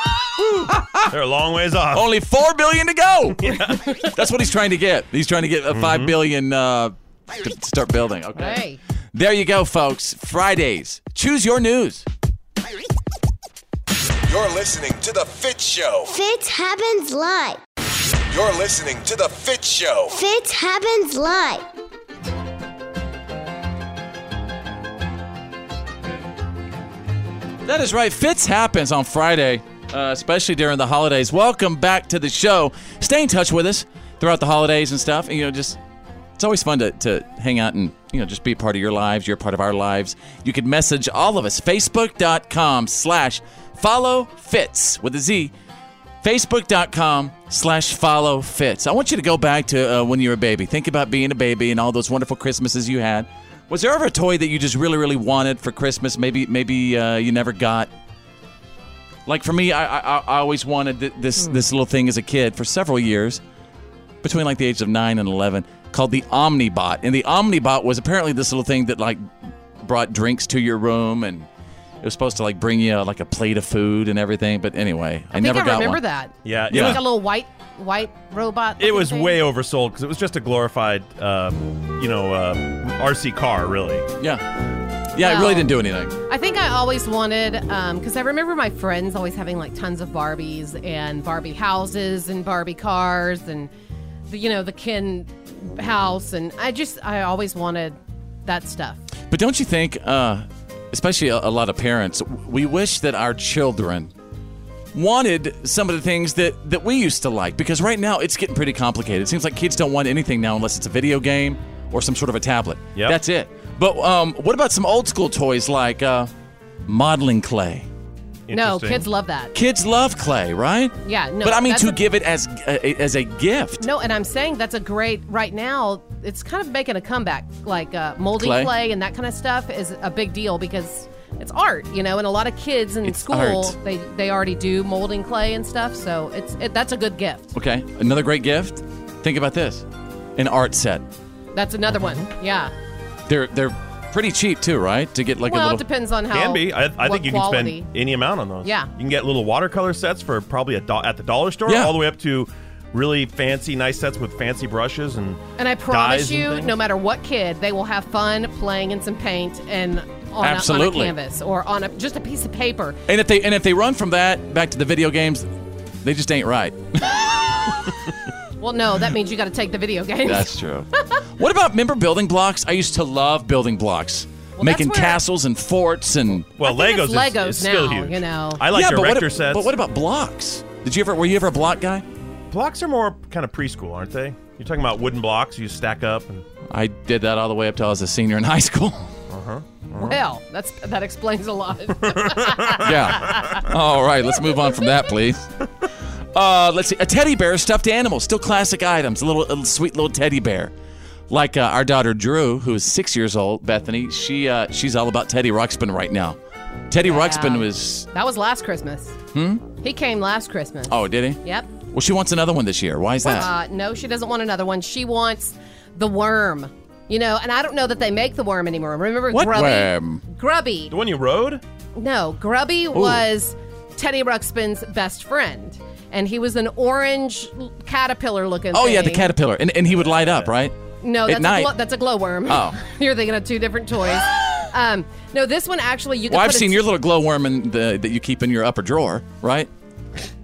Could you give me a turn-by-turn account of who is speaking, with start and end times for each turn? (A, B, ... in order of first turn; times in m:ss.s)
0:00.4-0:01.1 A
0:01.1-0:02.0 B
0:01.9-0:12.0 A
0:03.4-0:03.8 B
0:05.7-0:06.2 B
0:08.4-0:08.8 C
0:14.3-0:16.1 D
0:16.1-0:17.6 E
0:18.3-0:20.2 D
0:20.1-0:21.6 E
0:27.6-0:35.8 A
0:36.4-0:45.5 A
0:46.2-0:57.9 A
0:59.2-1:03.4 A
1:04.2-1:09.2 A
1:09.8-1:11.5 A
1:12.0-1:16.0 A
1:15.3-1:19.4 C
1:16.4-1:17.0 B
1:16.7-1:17.0 A
1:18.8-1:24.1 B
1:24.2-1:24.4 A
1:25.1-1:26.1 A
1:25.2-1:25.7 C
1:26.3-1:33.7 C
1:34.3-1:39.0 C
1:39.3-1:44.1 A
1:44.9-1:56.3 A
1:56.8-1:57.9 A
1:58.5-1:59.0 B
1:58.5-1:59.5 C
1:59.5-2:03.8 A
2:01.0-2:02.0 C
2:03.8-2:17.5 C
2:08.4-2:08.7 A
2:13.0-2:13.7 A
2:17.5-2:19.8 A
2:20.4-2:21.0 A
2:21.5-2:22.7 C
2:23.3-2:25.8 A
2:25.4-2:27.9 C
2:26.3-2:36.7 B
2:28.6-2:28.9 C
2:31.7-2:32.0 A
2:35.6-2:43.0 C
2:40.4-2:41.1 A
2:43.1-2:45.5 A
2:46.0-2:47.8 A
2:48.6-2:50.5 C
2:50.2-2:56.5 A
2:54.6-2:55.2 C
2:56.6-2:59.7 B
2:56.6-2:58.6 C
2:58.7-3:02.0 A
3:02.5-3:06.4 B
3:06.7-3:09.1 A
3:09.3-3:10.2 B
3:10.0-3:13.6 C
3:12.0-3:13.5 B
3:12.8-3:15.5 A
3:16.3-3:20.7 A
3:21.3-3:26.4 A
3:26.9-3:28.1 A
3:27.0-3:29.2 C
3:29.3-3:29.6 A
3:29.8-3:31.7 C
3:30.9-3:31.4 A
3:31.9-3:33.5 A
3:33.2-3:40.9 C
3:39.3-3:40.2 A
3:40.9-3:41.6 B
3:42.0-3:49.3 C
3:42.9-3:43.2 A
3:48.7-3:50.7 A
3:50.0-3:50.5 B
3:51.0-3:56.8 C
3:51.2-3:51.7 A
3:52.5-3:52.8 A
3:56.3-3:59.7 A